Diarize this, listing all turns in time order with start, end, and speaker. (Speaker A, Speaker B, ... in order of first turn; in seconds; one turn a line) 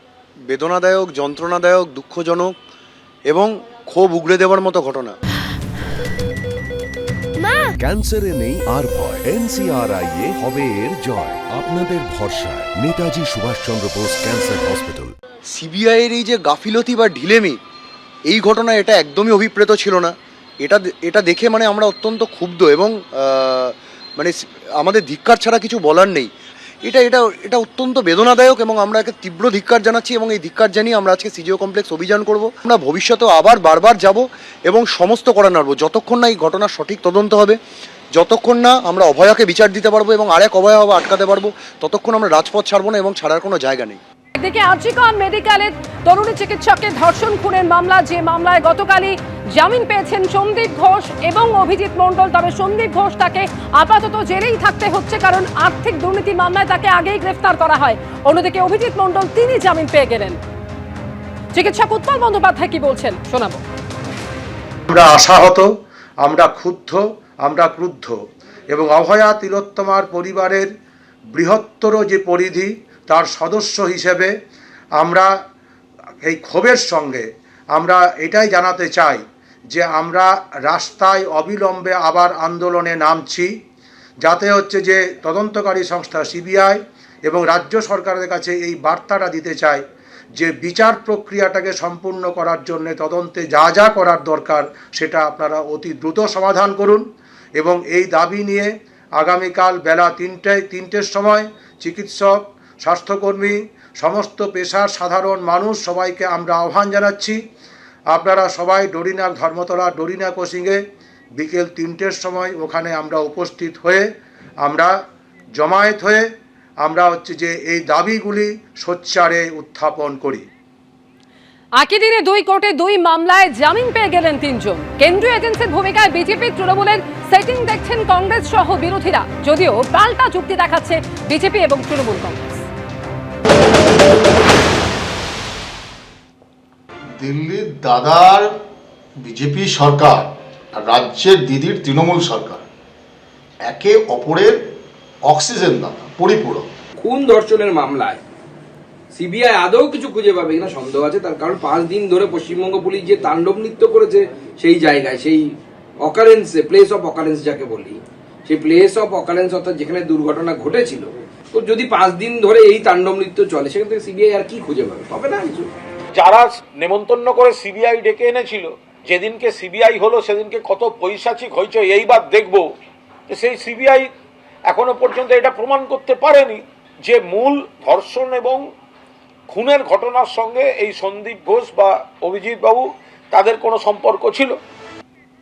Speaker A: 0.5-2.5
Speaker A: 3.3-5.1
Speaker B: 7.8-15.1
Speaker A: 15.5-17.6
Speaker A: 18.3-26.3
Speaker A: 26.9-37.6
Speaker A: 38.1-44.0
Speaker C: 44.4-60.4
Speaker C: 61.5-63.6
Speaker D: 64.9-68.2
Speaker D: 68.7-70.7
Speaker D: 71.3-74.3
Speaker D: 75.0-75.3
Speaker D: 76.2-83.5
Speaker D: 84.2-89.8
Speaker D: 90.4-97.0
Speaker D: 97.6-107.4
Speaker D: 108.1-110.8
Speaker D: 111.4-114.0
Speaker D: 114.6-114.9
Speaker D: 115.5-116.3
Speaker D: 116.8-120.4
Speaker C: 121.8-132.6
Speaker E: 137.2-138.5
Speaker E: 139.2-142.7
Speaker E: 143.6-144.6
Speaker E: 145.2-146.7
Speaker F: 147.0-148.2
Speaker F: 149.1-165.7
Speaker G: 166.2-172.6
Speaker G: 173.3-174.1
Speaker G: 174.7-178.6
Speaker G: 179.5-184.6